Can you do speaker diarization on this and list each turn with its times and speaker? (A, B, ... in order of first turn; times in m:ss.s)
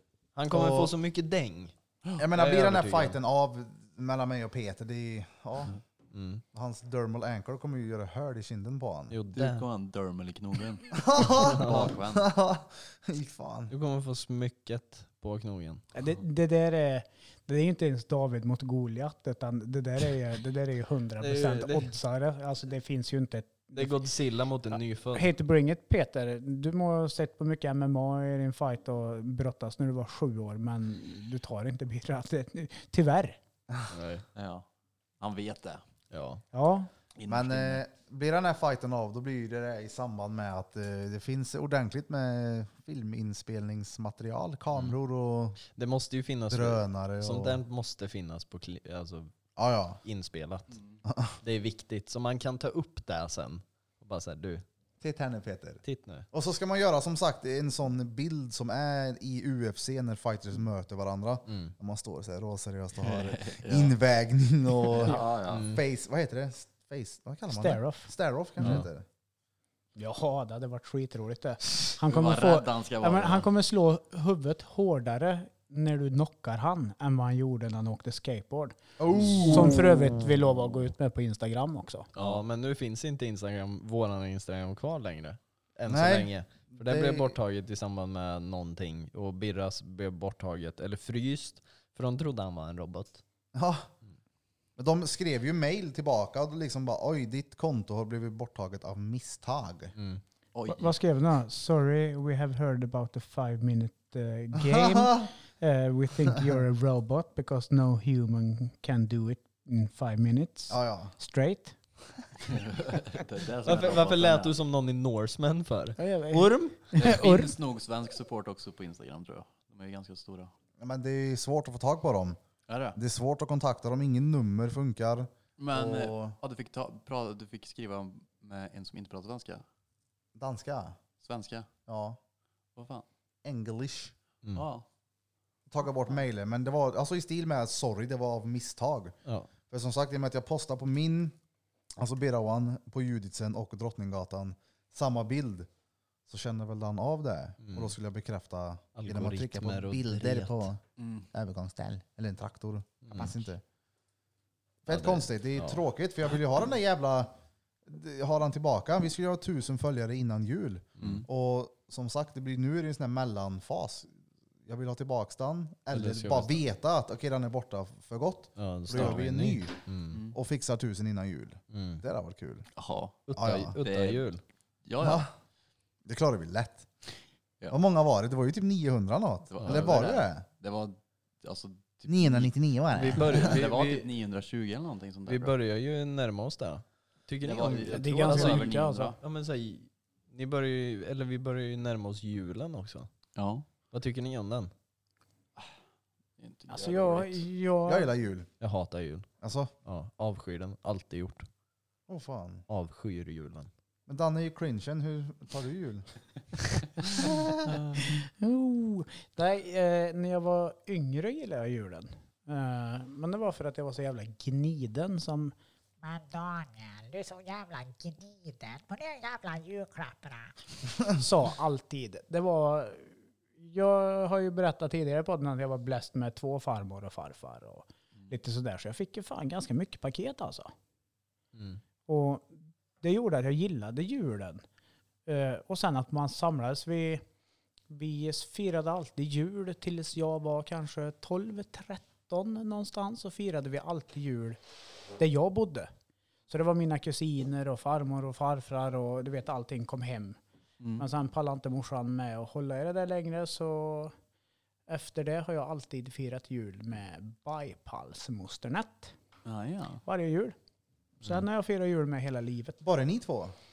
0:00.4-0:01.7 A
0:00.5-0:00.9 B
0:02.2-0:05.8 B
0:02.3-0:03.2 A
0:06.1-0:06.4 A
0:06.5-0:09.1 B
0:09.1-0:09.6 A
0:09.3-0:12.3 C
0:10.9-0:13.7 B
0:11.3-0:11.9 A
0:13.7-0:15.8 A
0:15.9-0:24.1 D
0:21.2-0:21.9 A
0:23.7-0:25.3 A
0:24.7-0:33.4 D
0:33.9-0:34.2 A
0:34.3-0:34.6 C
0:35.2-0:35.8 C
0:36.1-0:36.4 A
0:36.5-0:36.9 D
0:37.2-0:37.8 C
0:37.3-0:45.6 B
0:45.7-0:49.3 A
0:46.5-0:47.6 B
0:49.6-0:50.0 B
0:50.0-0:50.8 A
0:51.0-0:51.4 B
0:51.4-0:54.6 A
0:55.0-1:09.0 B
0:55.8-0:56.2 A
1:01.5-1:01.7 A
1:03.0-1:04.0 C
1:04.8-1:05.7 C
1:05.5-1:05.8 A
1:07.5-1:08.1 D
1:08.6-1:08.9 A
1:10.0-1:22.1 D
1:12.0-1:13.5 C
1:19.0-1:20.0 B
1:19.3-1:19.8 A
1:22.1-1:22.4 C
1:22.2-1:33.2 A
1:25.9-1:27.3 B
1:33.5-1:33.9 B
1:34.8-1:39.9 B
1:40.0-1:40.2 A
1:40.5-1:40.9 C
1:40.7-1:51.8 D
1:44.5-1:45.3 B
1:50.7-1:51.1 B
1:52.4-1:54.5 C
1:53.6-1:57.0 A
1:56.0-1:57.5 D
1:56.9-2:00.5 C
2:00.8-2:02.4 B
2:02.7-2:03.0 C
2:02.9-2:06.4 B
2:05.6-2:09.6 C
2:10.4-2:11.0 B
2:11.2-2:11.7 C
2:11.9-2:12.2 B
2:12.8-2:13.0 C
2:13.4-2:14.1 B
2:14.5-2:14.8 C
2:15.7-2:19.1 B
2:19.7-2:21.4 B
2:22.0-2:25.7 B
2:26.3-2:33.6 B
2:27.6-2:27.9 A
2:29.0-2:30.7 A
2:31.0-2:31.3 C
2:33.0-2:33.3 A
2:34.8-2:37.3 B
2:34.9-2:35.8 A
2:37.8-2:44.1 B
2:41.0-2:41.2 A
2:44.6-2:49.7 B
2:45.9-2:46.6 A
2:48.6-2:50.2 A
2:50.1-2:50.4 C
2:50.3-2:52.6 B
2:51.7-2:52.0 A
2:52.8-2:54.2 C
2:53.3-2:54.4 A
2:53.3-2:53.8 B
2:54.8-2:55.3 C
2:55.0-2:55.3 B
2:56.0-2:56.9 B
2:57.7-3:00.4 B
2:59.5-3:05.6 C
3:02.1-3:03.6 B
3:02.9-3:04.1 A
3:05.3-3:13.1 A
3:07.4-3:09.2 C
3:07.8-3:09.2 D
3:13.4-3:13.6 C
3:13.9-3:14.7 A
3:16.4-3:17.5 C
3:16.7-3:18.1 D
3:17.9-3:18.5 B
3:18.6-3:19.3 A
3:19.4-3:19.7 B
3:19.8-3:21.5 A
3:22.1-3:22.6 B
3:22.7-3:23.7 A
3:24.1-3:26.0 B
3:27.1-3:27.7 B
3:27.7-3:28.0 C
3:28.0-3:35.5 D
3:36.0-3:40.5 E
3:41.1-3:50.7 D
3:51.5-3:51.8 A
3:52.1-3:54.6 D
3:55.2-3:57.2 D
3:57.9-4:04.6 D
4:05.2-4:05.9 D
4:06.5-4:10.4 D
4:10.8-4:11.0 C
4:11.0-4:14.1 D
4:14.9-4:19.1 D
4:19.4-4:20.0 C
4:20.0-4:20.6 D
4:21.2-4:22.8 D
4:22.8-4:23.5 B